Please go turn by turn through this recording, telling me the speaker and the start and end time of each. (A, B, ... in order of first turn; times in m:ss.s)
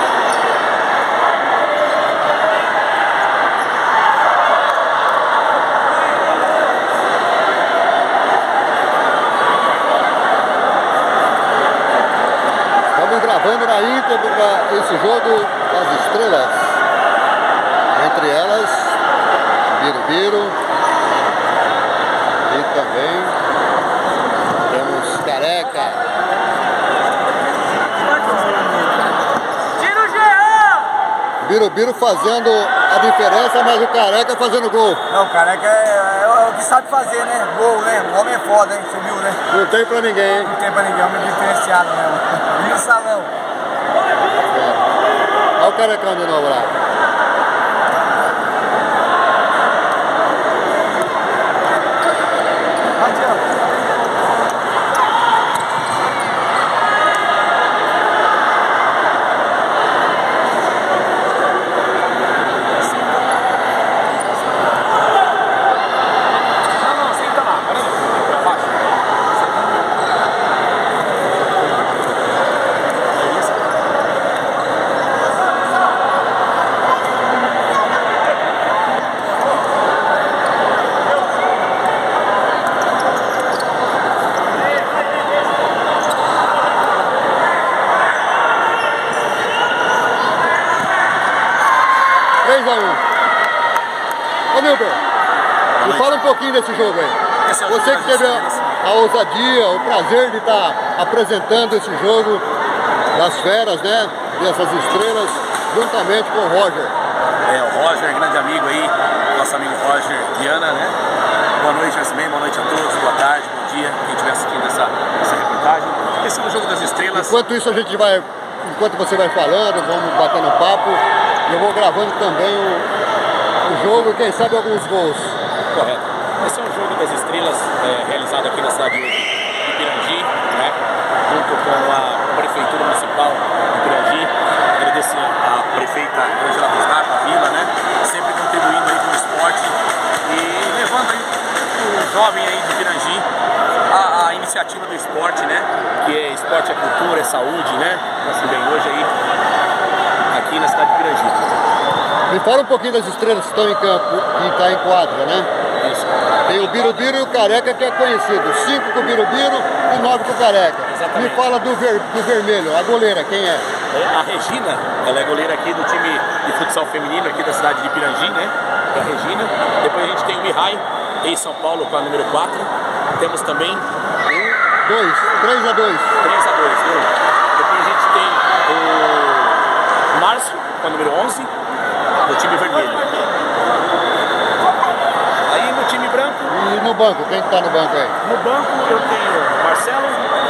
0:12.9-0:16.7 A
0:17.9-0:18.9 A
0:19.7-0:20.6 A
0:22.4-0:23.4 A
0:24.6-0:26.0 A
0:28.2-0:28.6 B
0:31.4-0:35.0 A
0:35.1-0:39.4 B
0:39.5-0:40.5 A
0:40.4-0:43.3 B
0:44.4-0:44.8 A
0:45.6-0:46.7 A
1:06.8-1:09.8 C
1:13.1-1:13.7 C
1:32.4-1:33.0 A
1:34.5-1:35.0 A
1:35.8-1:36.1 C
1:35.8-1:42.4 A
1:37.4-1:38.8 C
1:43.1-1:46.9 A
1:47.4-1:51.0 C
1:51.6-1:57.4 C
1:57.1-2:02.9 A
2:03.6-2:05.4 A
2:05.7-2:23.3 C
2:23.9-2:29.1 C
2:30.3-2:31.6 C
2:32.3-2:35.5 A
2:35.8-2:37.1 C
2:36.4-2:43.6 A
2:40.9-2:41.5 C
2:43.9-2:53.9 C
2:54.2-2:56.1 A
2:56.2-3:01.5 C
3:02.2-3:03.1 C
3:05.5-3:06.5 C
3:06.5-3:08.1 A
3:08.2-3:10.3 C